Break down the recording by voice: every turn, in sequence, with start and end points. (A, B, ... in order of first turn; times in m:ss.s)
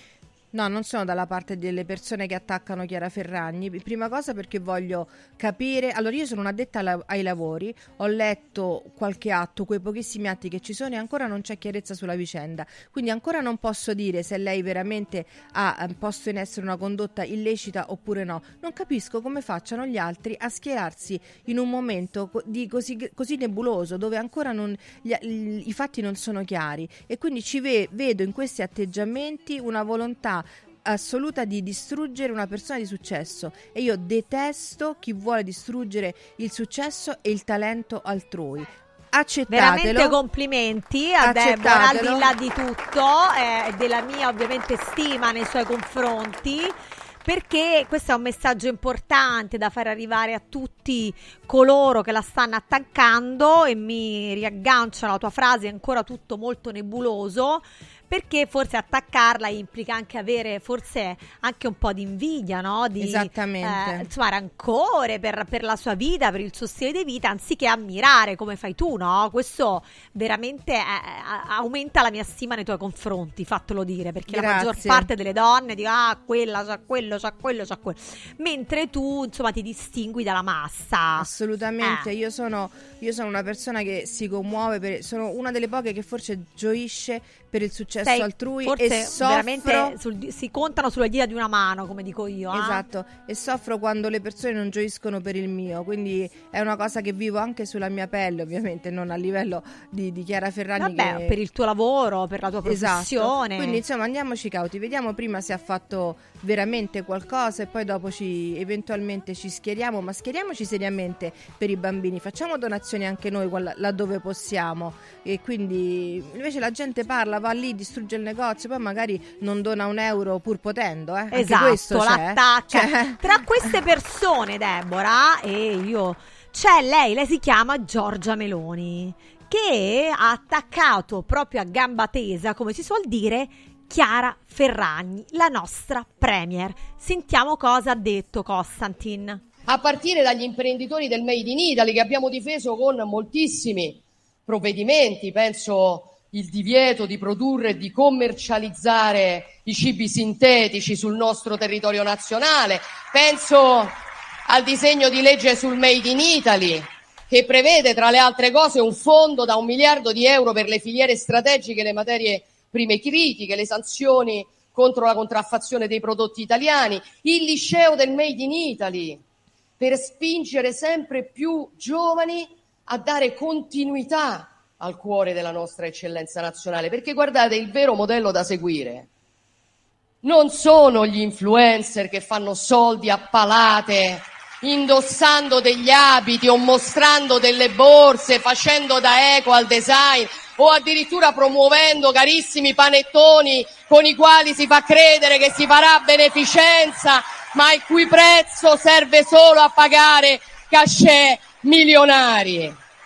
0:00.5-0:40.2 A
0:39.5-0:46.7 B
0:41.2-0:42.3 A
0:47.2-1:21.3 B
1:03.0-1:04.1 A
1:14.3-1:15.1 A
1:21.2-1:29.9 A
1:28.0-1:32.8 B
1:32.5-1:41.4 A
1:40.8-1:43.8 B
1:42.6-2:03.7 A
2:01.3-2:19.4 B
2:19.7-2:33.9 C
2:34.5-2:49.2 C
2:49.8-2:59.1 C
3:00.2-3:22.8 C